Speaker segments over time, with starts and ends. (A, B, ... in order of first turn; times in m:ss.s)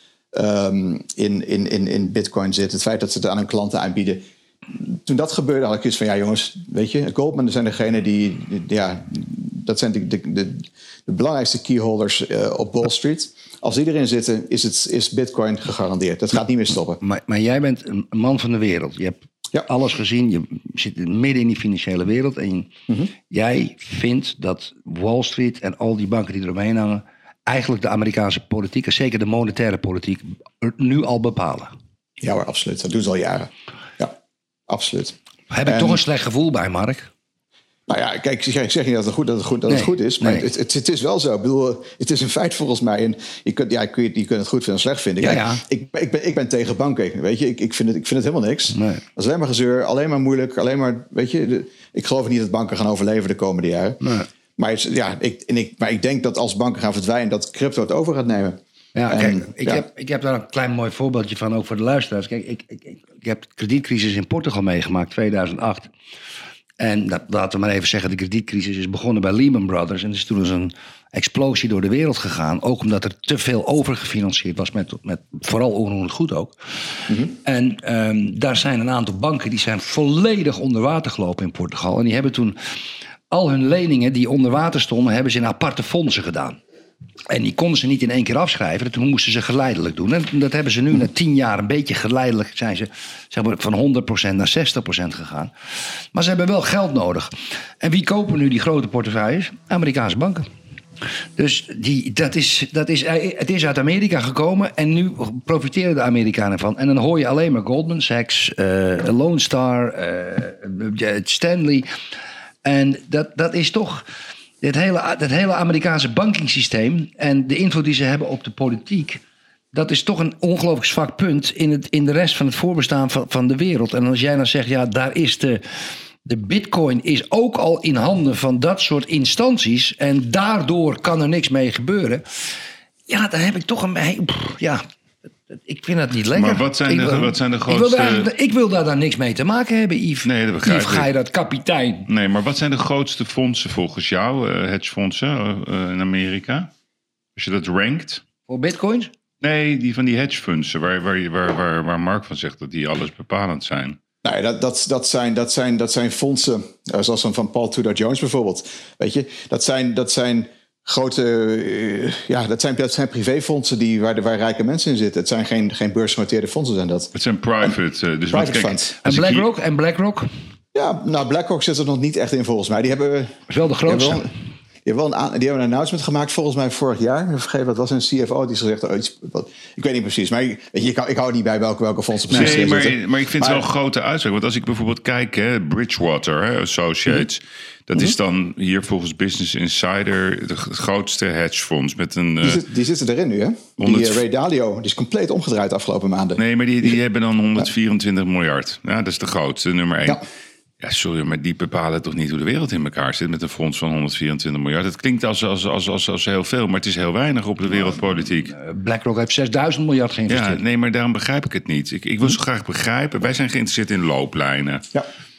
0:00.3-0:17.0 A
0:17.0-0:22.7 B
0:23.3-0:31.7 B
0:32.2-0:34.2 A
0:34.7-0:36.0 A
0:35.5-0:37.1 B
0:37.9-0:54.0 A
0:39.7-0:40.5 B
0:45.2-0:45.6 B
0:48.8-0:49.0 B
0:54.0-0:54.3 B
0:54.6-0:59.9 A
0:59.0-1:05.9 B
1:06.8-1:22.6 B
1:17.1-1:17.3 A
1:23.3-1:26.6 B
1:27.3-1:35.5 B
1:36.1-1:40.5 B
1:41.4-1:51.9 B
1:52.6-1:54.0 B
1:54.6-1:59.2 B
1:59.7-2:05.6 B
2:06.2-2:12.2 B
2:13.1-2:14.8 B
2:15.5-2:22.1 B
2:16.3-2:18.3 C
2:20.2-2:21.1 C
2:22.1-2:26.7 C
2:27.4-2:28.2 C
2:28.5-2:29.1 B
2:29.4-2:34.0 C
2:34.2-2:47.1 A
2:47.1-2:49.5 C
2:48.3-2:48.9 A
2:49.0-2:50.3 B
2:50.7-2:54.3 A
2:53.5-2:54.3 B
2:54.8-3:03.6 A
3:02.3-3:12.6 C
3:12.4-3:16.9 A
3:13.8-3:14.2 C
3:16.4-3:20.2 C
3:20.8-3:28.6 C
3:28.5-3:30.6 B
3:30.3-3:34.8 C